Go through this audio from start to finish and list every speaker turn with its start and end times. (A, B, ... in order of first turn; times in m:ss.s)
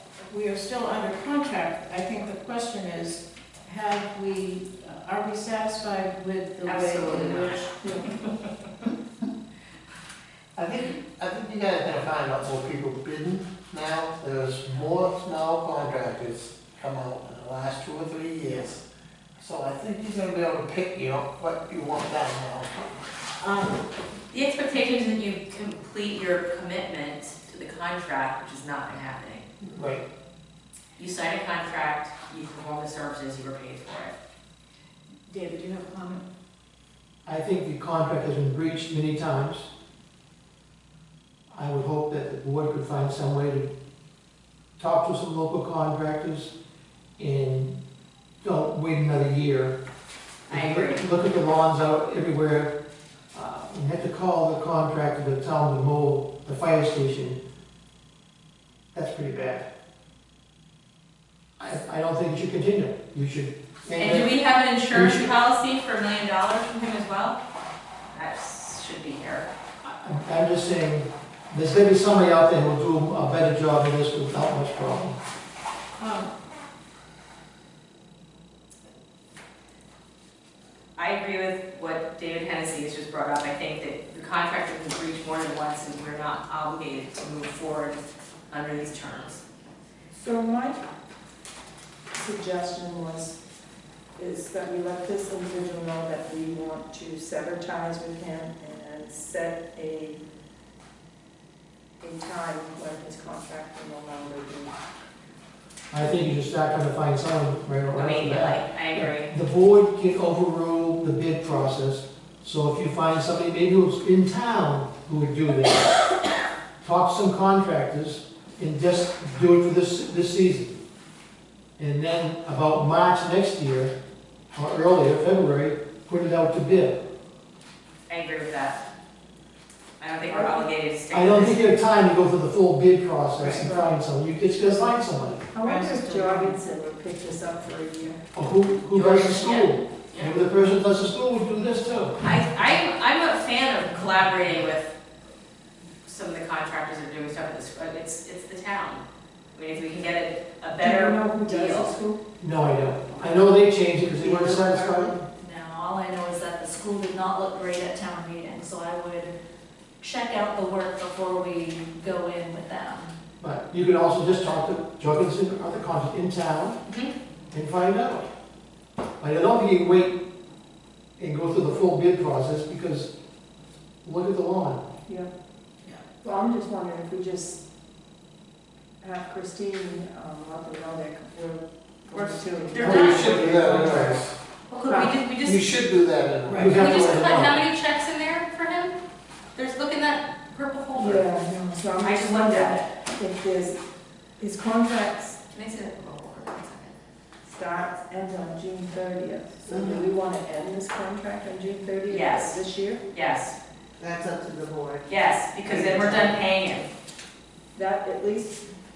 0:00.2-0:07.7 A
0:06.6-0:08.3 B
0:10.6-0:18.8 C
0:19.4-0:22.8 C
0:23.4-0:23.8 A
0:24.3-0:29.5 B
0:29.7-0:30.0 C
0:31.0-0:34.2 B
0:35.3-0:36.2 A
0:37.3-0:39.7 D
0:41.5-0:43.7 D
0:44.8-0:46.5 D
0:47.2-0:47.8 D
0:48.4-0:49.8 D
0:50.5-0:52.7 D
0:50.5-0:51.0 B
0:53.3-0:57.4 D
0:58.9-0:59.7 D
1:01.6-1:04.3 D
1:04.0-1:07.4 B
1:04.9-1:05.3 D
1:08.1-1:09.5 B
1:09.8-1:15.2 D
1:16.0-1:16.3 A
1:21.0-1:29.4 B
1:30.1-1:30.8 E
1:32.1-1:33.4 E
1:34.2-1:40.2 E
1:42.0-1:44.8 E
1:45.9-1:55.9 D
1:47.9-1:49.3 B
1:56.8-2:00.8 D
2:01.8-2:03.9 D
2:04.5-2:07.0 D
2:08.1-2:08.8 B
2:10.0-2:11.7 B
2:10.3-2:10.7 E
2:11.1-2:15.4 D
2:13.4-2:13.7 A
2:15.5-2:18.2 E
2:15.6-2:16.6 A
2:18.3-2:22.2 D
2:18.9-2:20.3 B
2:22.2-2:24.9 B
2:26.0-2:29.0 B
2:29.6-2:31.9 B
2:30.8-2:32.2 E
2:32.4-2:35.2 D
2:34.2-2:35.2 F
2:35.4-2:39.3 G
2:40.0-2:43.1 G
2:43.4-2:46.8 D
2:47.5-2:48.3 D
2:49.2-2:50.2 D
2:51.2-2:53.1 D
2:54.0-2:54.8 D
2:56.2-2:57.6 E
2:59.0-3:04.2 E
3:02.1-3:03.8 B
3:02.8-3:04.2 D
3:03.3-3:04.3 C
3:04.7-3:05.7 B
3:05.4-3:06.8 C
3:06.4-3:07.6 D
3:06.5-3:06.8 A
3:06.7-3:09.0 B
3:09.6-3:11.3 B
3:11.0-3:13.8 E
3:12.0-3:12.8 B
3:14.4-3:15.4 E
3:15.5-3:17.0 B
3:17.4-3:23.0 E
3:19.7-3:20.1 F
3:22.1-3:22.6 B
3:23.1-3:23.6 B
3:24.0-3:26.4 F
3:25.1-3:26.9 B
3:27.8-3:28.6 E